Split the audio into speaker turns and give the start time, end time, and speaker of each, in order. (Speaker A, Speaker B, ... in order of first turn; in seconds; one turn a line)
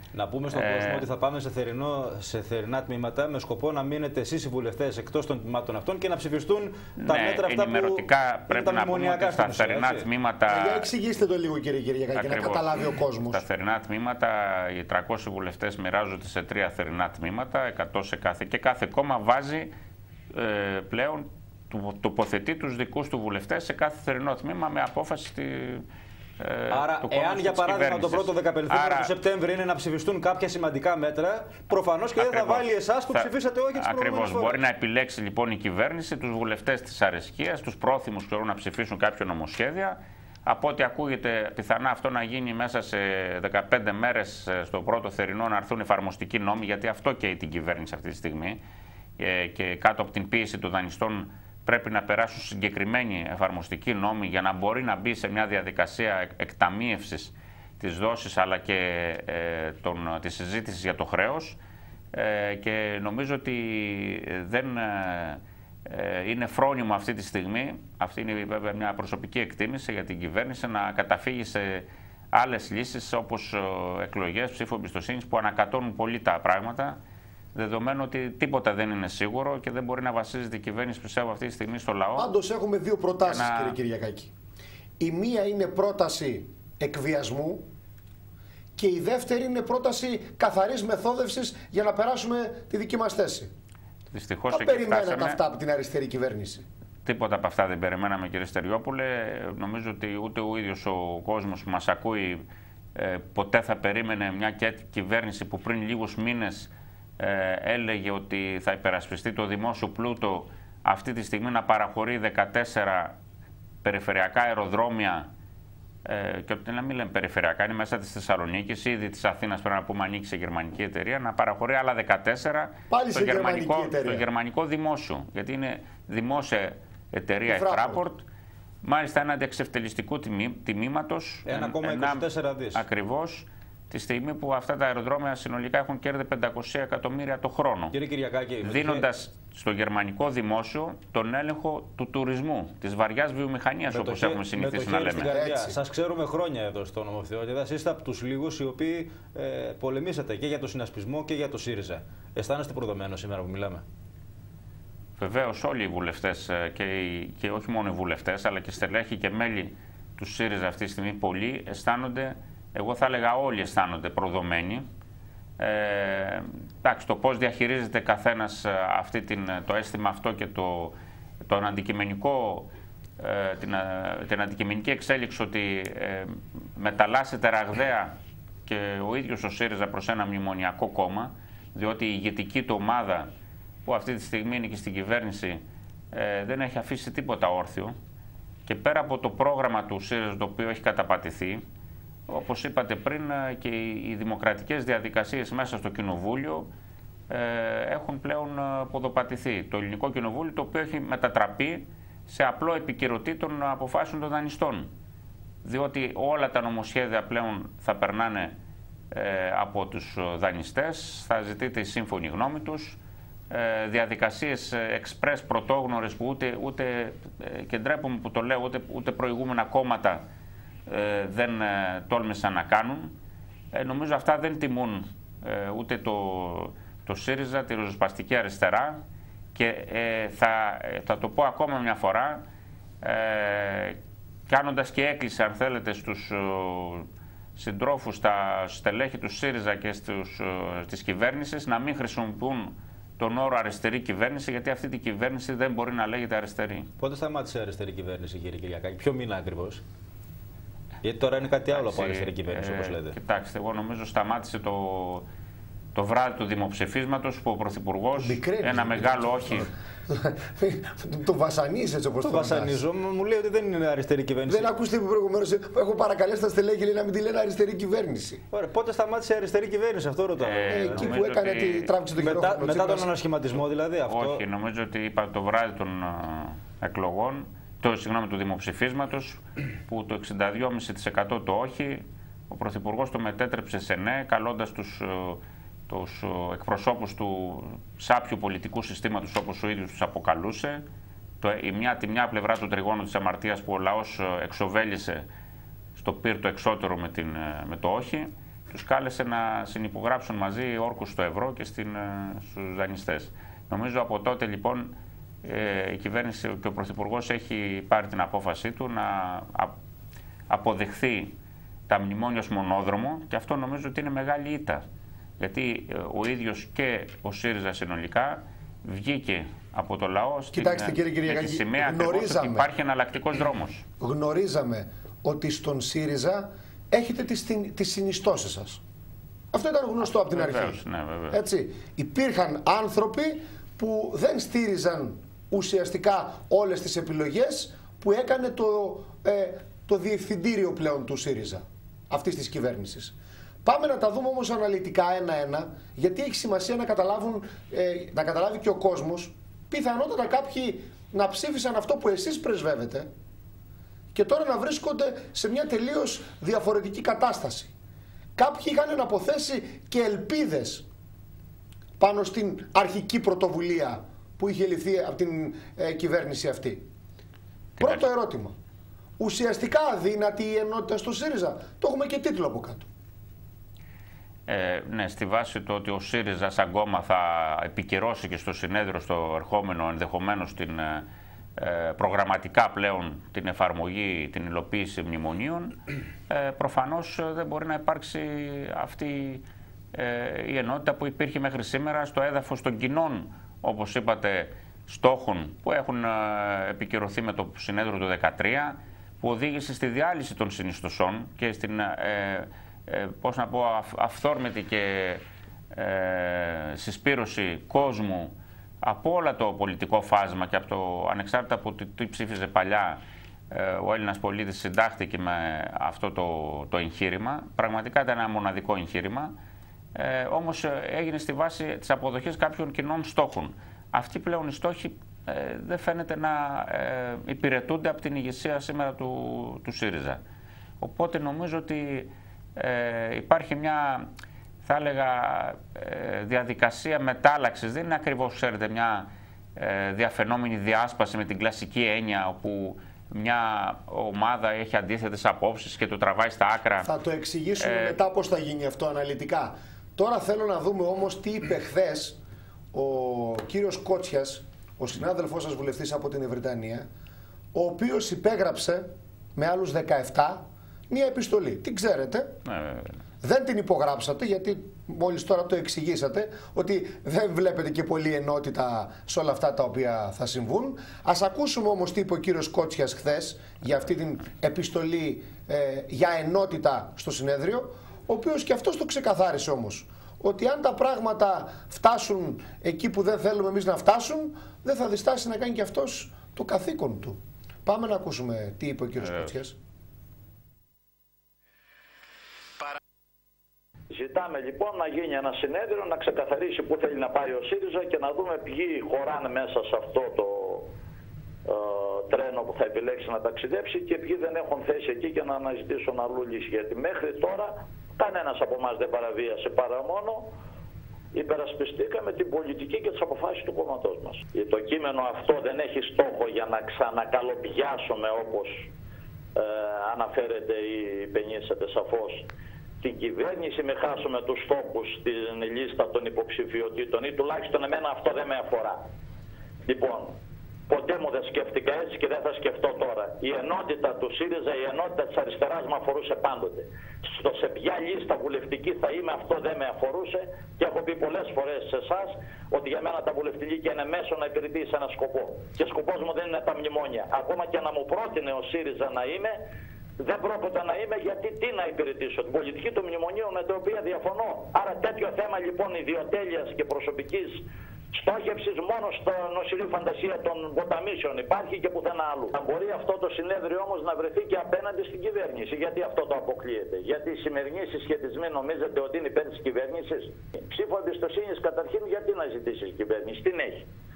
Speaker A: 0.1-10.1
Speaker B: 0.5-1.1
Speaker B: 7.0-10.9
Speaker C: 10.5-13.4
Speaker B: 12.2-19.7
Speaker B: 20.3-25.9
Speaker B: 26.4-29.1
Speaker A: 26.7-34.6
Speaker B: 32.2-48.6
Speaker B: 49.2-61.6
Speaker B: 62.1-77.0
Speaker B: 77.5-82.3
Speaker C: 82.2-84.3
Speaker B: 83.2-83.8
Speaker C: 85.0-87.7
Speaker C: 88.8-93.5
Speaker B: 94.1-95.4
Speaker C: 94.5-96.7
Speaker B: 97.0-113.2
Speaker B: 113.8-115.3
Speaker B: 116.0-128.3
Speaker C: 122.9-124.3
Speaker C: 127.5-128.0
Speaker B: 128.8-138.0
Speaker A: 131.5-132.8
Speaker A: 137.9-139.1
Speaker B: 138.6-145.3
Speaker A: 143.9-153.8
Speaker C: 145.3-145.8
Speaker B: 155.2-164.9
Speaker B: 165.6-178.1
Speaker B: 178.7-183.3
Speaker B: 183.8-188.0
Speaker B: 188.7-191.7
Speaker B: 192.3-196.7
Speaker B: 197.3-204.9
Speaker B: 205.6-208.6
Speaker B: 209.1-213.0
Speaker B: 213.5-220.2
Speaker B: 220.9-223.2
Speaker B: 223.7-229.0
Speaker B: 229.6-232.4
Speaker B: 233.0-246.9
Speaker A: 247.0-249.8
Speaker A: 251.0-253.2
Speaker B: 251.7-255.3
Speaker B: 255.9-259.7
Speaker C: 258.2-262.8
Speaker A: 262.2-264.7
Speaker C: 264.5-268.4
Speaker A: 268.5-271.1
Speaker B: 270.4-272.0
Speaker C: 270.7-273.1
Speaker A: 272.2-274.4
Speaker B: 274.1-290.8
Speaker B: 291.4-295.3
Speaker B: 296.0-309.7
Speaker B: 310.5-311.4
Speaker B: 311.9-314.8
Speaker B: 315.4-323.9
Speaker C: 320.5-322.7
Speaker C: 324.0-328.8
Speaker C: 329.5-330.8
Speaker B: 330.0-331.4
Speaker C: 331.3-353.1
Speaker C: 354.1-357.7
Speaker C: 358.4-360.9
Speaker C: 362.0-366.8
Speaker B: 367.8-368.0
Speaker C: 367.8-368.5
Speaker C: 369.2-372.9
Speaker B: 374.5-419.3
Speaker B: 419.9-430.2
Speaker B: 430.8-434.1
Speaker B: 434.6-446.9
Speaker C: 446.8-452.2
Speaker B: 447.6-448.0
Speaker C: 452.7-456.9
Speaker C: 457.5-462.4
Speaker B: 462.5-463.0
Speaker C: 463.2-489.6
Speaker D: 493.9-500.7
Speaker D: 501.5-510.3
Speaker D: 511.1-518.7
Speaker D: 519.4-522.3
Speaker D: 522.8-528.8
Speaker D: 529.7-530.1
Speaker D: 530.7-549.4
Speaker D: 550.0-573.7